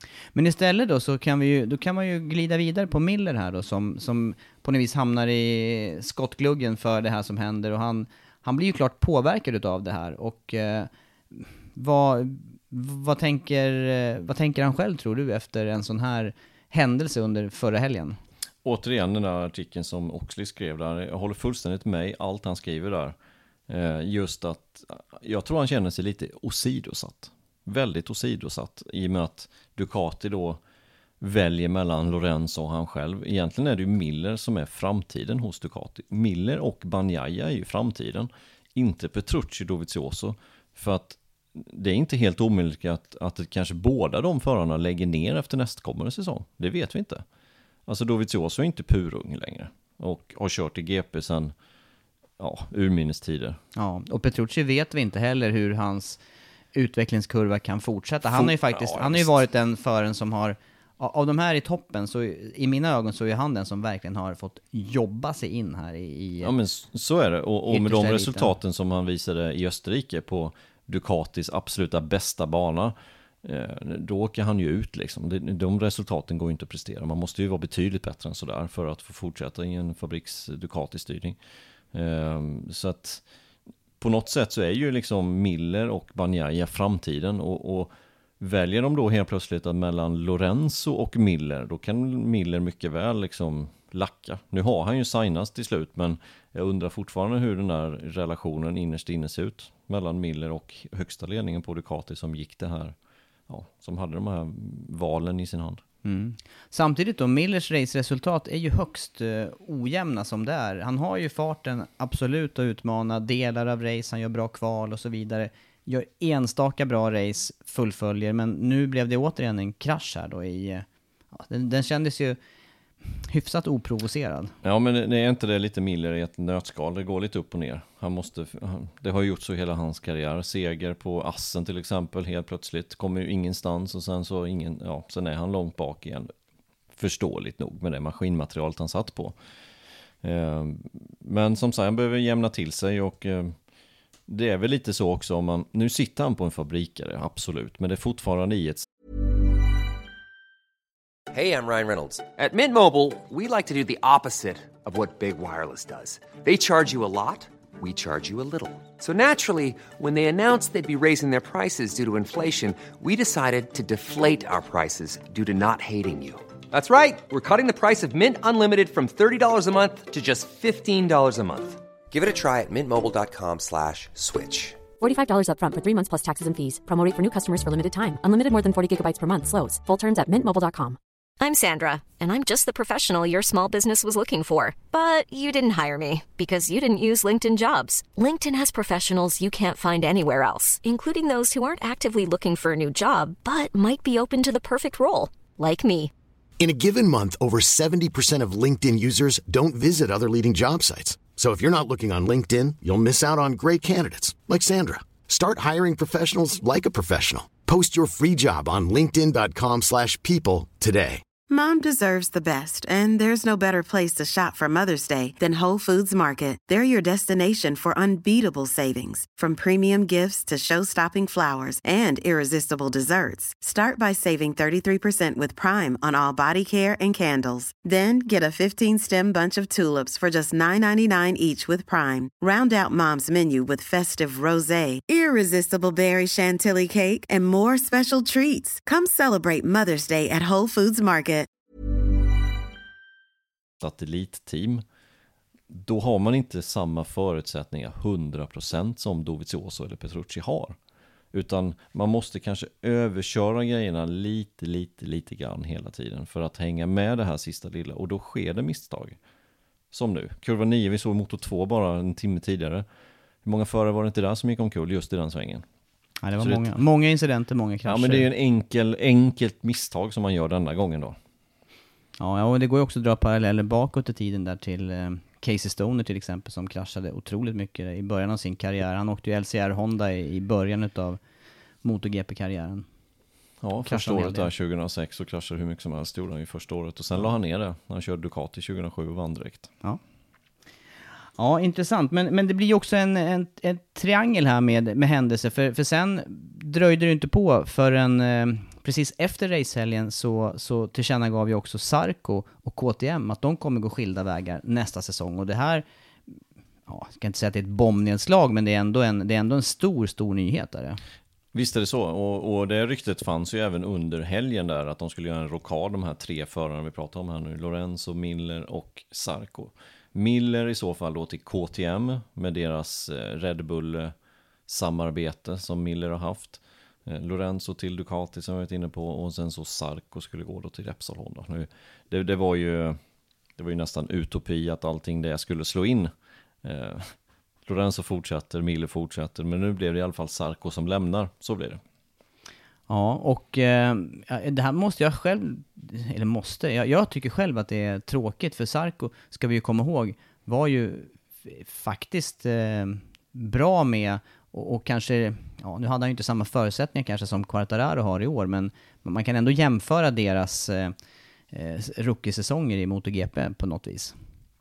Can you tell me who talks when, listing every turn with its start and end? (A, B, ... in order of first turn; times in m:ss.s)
0:00.3-0:18.2 A
0:18.6-0:23.2 B
0:23.7-0:30.6 B
0:31.2-0:47.2 B
0:47.9-0:51.5 B
0:52.4-0:53.6 B
0:53.8-0:56.2 A
0:56.7-1:06.5 A
0:58.2-0:59.3 B
1:06.4-1:21.4 B
1:07.7-1:08.5 A
1:21.9-1:23.2 B
1:24.0-1:43.0 B
1:43.5-1:45.8 B
1:46.0-2:02.4 A
2:03.0-2:04.5 A
2:04.6-2:16.3 B
2:16.9-2:19.4 B
2:20.2-2:23.6 B
2:24.3-2:28.9 B
2:31.3-2:54.8 C
2:55.0-3:01.0 D
3:01.4-3:16.1 E
3:16.6-3:31.2 F
3:31.5-4:01.5 G
4:03.8-4:04.8 B
4:05.7-4:10.8 B
4:11.3-4:19.2 B
4:19.9-4:22.8 B
4:23.4-4:25.6 B
4:26.2-4:28.3 A
4:26.4-4:26.8 B
4:27.8-4:31.2 B
4:32.2-4:41.2 A
4:41.8-4:42.9 A
4:43.6-4:49.7 B
4:43.8-4:44.5 A
4:51.4-5:05.8 A
5:06.9-5:11.0 A
5:11.5-5:24.2 B
5:24.7-5:33.0 B
5:33.6-5:36.1 B
5:36.6-5:41.8 B
5:42.9-6:00.9 A
6:01.5-6:04.2 A